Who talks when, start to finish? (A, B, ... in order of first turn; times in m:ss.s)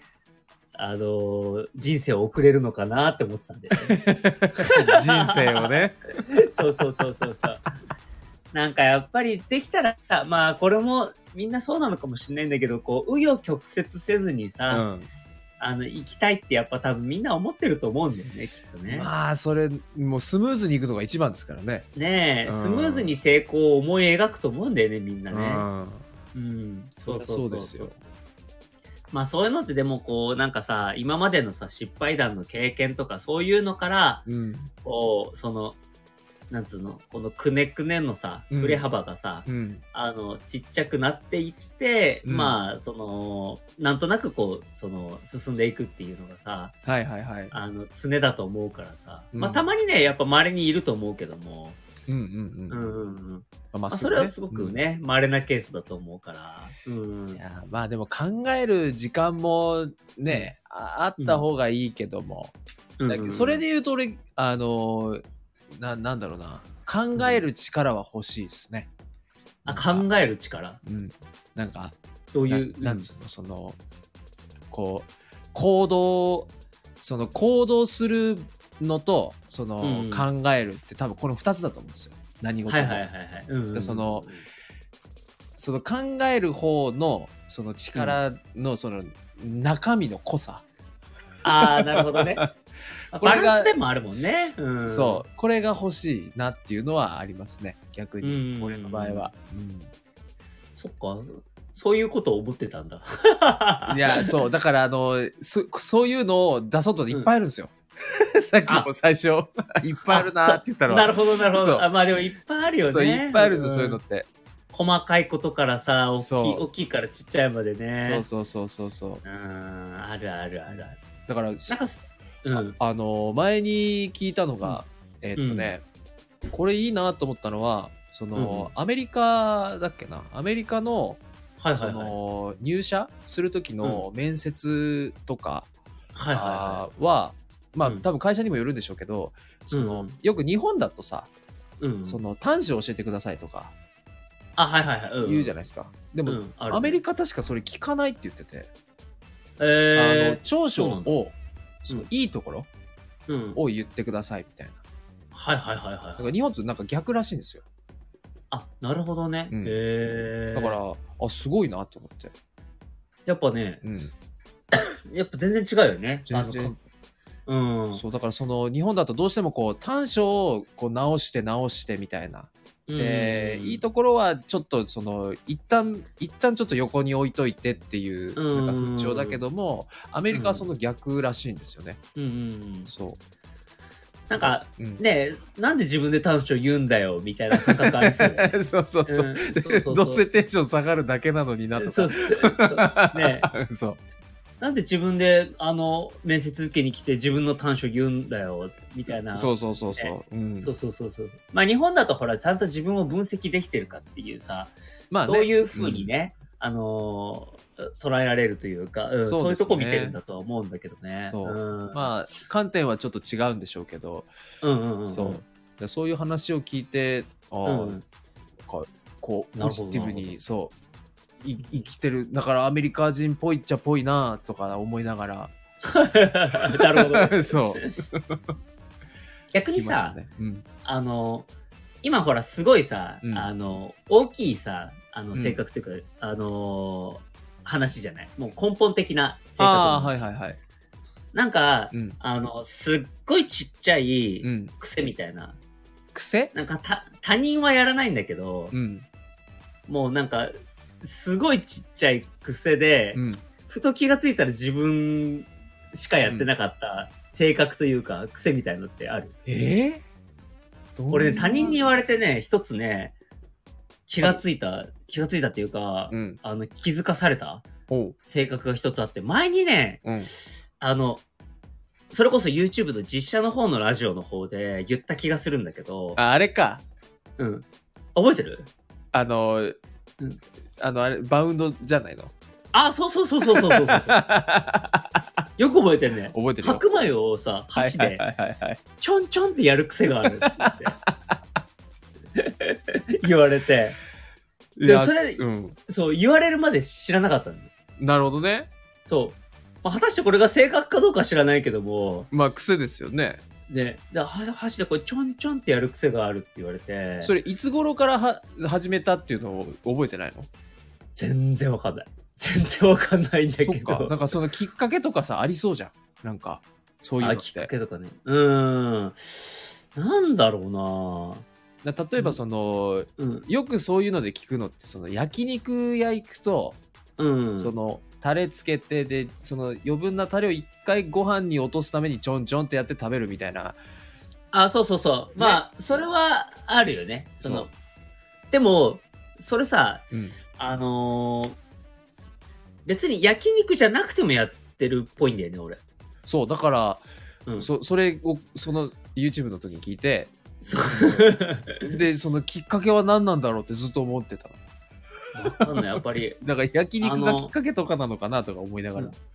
0:00.8-0:04.0 A
0:03.9-0:06.0 B
0:04.6-0:07.6 A
0:08.5-0:14.9 A
0:14.7-0:15.1 B
0:15.6-0:19.1 A
0:18.9-0:21.9 B
0:21.9-0:25.7 A
0:22.4-0:23.1 B
0:25.3-0:26.0 B
0:26.3-0:27.9 A
0:27.1-0:28.0 B
0:29.1-0:34.2 A
0:34.2-0:34.7 B
0:34.8-0:35.8 A
0:36.5-0:46.8 A
0:38.5-0:38.8 B
0:39.4-0:39.8 B
0:42.2-0:42.6 B
0:46.9-0:47.6 B
0:47.5-0:51.8 A
0:49.3-0:49.7 B
0:52.1-0:52.9 B
0:52.7-0:57.4 A
0:53.7-0:54.8 B
0:57.3-1:02.5 B
1:01.2-1:01.4 A
1:03.0-1:03.6 A
1:03.1-1:05.2 B
1:05.8-1:08.9 B
1:07.2-1:07.4 A
1:09.6-1:10.8 A
1:09.6-1:10.1 B
1:10.9-1:11.9 B
1:12.3-1:13.1 A
1:12.5-1:13.8 B
1:14.7-1:16.5 B
1:17.0-1:23.0 B
1:19.8-1:20.3 A
1:22.7-1:24.4 A
1:23.7-1:24.2 B
1:25.6-1:30.6 B
1:27.9-1:28.2 A
1:31.4-1:32.4 A
1:31.6-1:32.5 B
1:33.1-1:35.2 A
1:33.2-1:33.7 B
1:34.8-1:39.9 B
1:38.2-1:39.3 A
1:40.8-1:44.3 A
1:43.9-1:51.9 B
1:50.1-1:54.0 A
1:52.9-1:54.3 B
1:54.7-1:58.2 A
1:56.2-1:56.6 B
1:58.0-1:59.2 B
1:59.2-2:01.0 A
2:00.7-2:01.8 B
2:01.7-2:02.8 A
2:02.5-2:05.8 B
2:05.4-2:05.7 A
2:06.5-2:11.2 B
2:08.3-2:08.7 A
2:11.6-2:12.2 A
2:11.7-2:15.7 B
2:16.2-2:16.8 A
2:16.3-2:21.3 B
2:19.7-2:20.2 A
2:21.8-2:22.2 A
2:22.0-2:23.7 B
2:24.6-2:25.5 A
2:25.2-2:28.7 B
2:26.3-2:27.0 A
2:29.6-2:31.2 A
2:29.9-2:32.7 B
2:33.3-2:33.6 A
2:33.6-2:34.8 B
2:35.3-2:36.3 A
2:36.2-2:37.6 B
2:38.5-2:40.8 A
2:39.5-2:39.8 B
2:40.5-2:42.3 B
2:43.3-2:43.8 A
2:43.8-2:44.1 B
2:44.7-2:46.7 A
2:46.3-2:46.8 B
2:47.4-2:48.0 A
2:47.9-3:02.0 B
2:52.9-2:53.8 A
2:58.4-2:59.4 A
3:00.3-3:00.7 A
3:02.2-3:02.9 A
3:02.9-3:03.2 B
3:04.3-3:10.3 A
3:04.4-3:05.0 B
3:07.5-3:14.0 B
3:11.7-3:13.5 A
3:14.6-3:32.1 A
3:19.3-3:20.7 B
3:25.1-3:26.1 B
3:29.2-3:30.2 B
3:31.2-3:34.3 B
3:34.6-3:35.4 A
3:35.1-3:38.0 B
3:37.6-3:38.0 A
3:38.6-3:40.7 B
3:39.6-3:40.4 A
3:41.4-3:41.8 A
3:41.5-3:45.5 B
3:45.8-3:47.9 A
3:46.8-3:48.4 B
3:49.5-3:50.2 A
3:49.6-3:50.6 B
3:50.8-3:51.5 A
3:52.0-4:00.3 A
3:53.2-3:53.5 B
3:55.3-3:55.6 B
3:59.6-4:00.6 B
4:01.3-4:05.6 A
4:01.9-4:02.2 B
4:04.4-4:04.7 B
4:06.2-4:06.5 B
4:06.5-4:08.7 A
4:08.7-4:09.1 B
4:09.9-4:19.3 A
4:13.1-4:13.4 B
4:19.4-4:20.0 B
4:21.0-4:21.9 B
4:21.1-4:23.2 A
4:24.1-4:27.6 A
4:26.1-4:26.4 B
4:27.9-4:28.2 B
4:28.3-4:30.0 A
4:30.0-4:30.3 B
4:30.8-4:31.2 A
4:32.1-4:36.2 A
4:36.2-4:36.8 B
4:37.4-4:38.7 A
4:39.1-4:39.8 B
4:40.8-4:42.3 B
4:42.7-4:44.3 A
4:43.7-4:45.2 B
4:45.6-4:48.2 A
4:46.3-4:46.8 B
4:47.7-4:48.8 B
4:49.0-4:51.0 A
4:50.4-4:51.1 B
4:52.3-4:54.0 A
4:54.8-4:55.8 B
4:54.8-4:57.7 A
4:58.0-4:58.7 B
4:59.0-5:02.3 A
5:02.3-5:03.4 B
5:03.7-5:07.3 A
5:07.2-5:10.5 B
5:11.2-5:14.2 A
5:13.6-5:17.7 B
5:17.2-5:21.4 A
5:21.8-5:26.8 B
5:23.2-5:23.5 A
5:27.2-5:27.7 A
5:27.6-5:33.8 B
5:34.5-5:37.7 A
5:37.4-5:37.7 B
5:38.5-5:40.0 A
5:40.1-5:40.4 B
5:40.6-5:41.6 A
5:42.8-5:45.8 A
5:46.3-5:47.0 B
5:47.6-5:54.6 B
5:50.6-5:52.0 A
5:55.3-5:56.4 A
5:56.4-5:59.2 B
5:57.0-5:57.5 A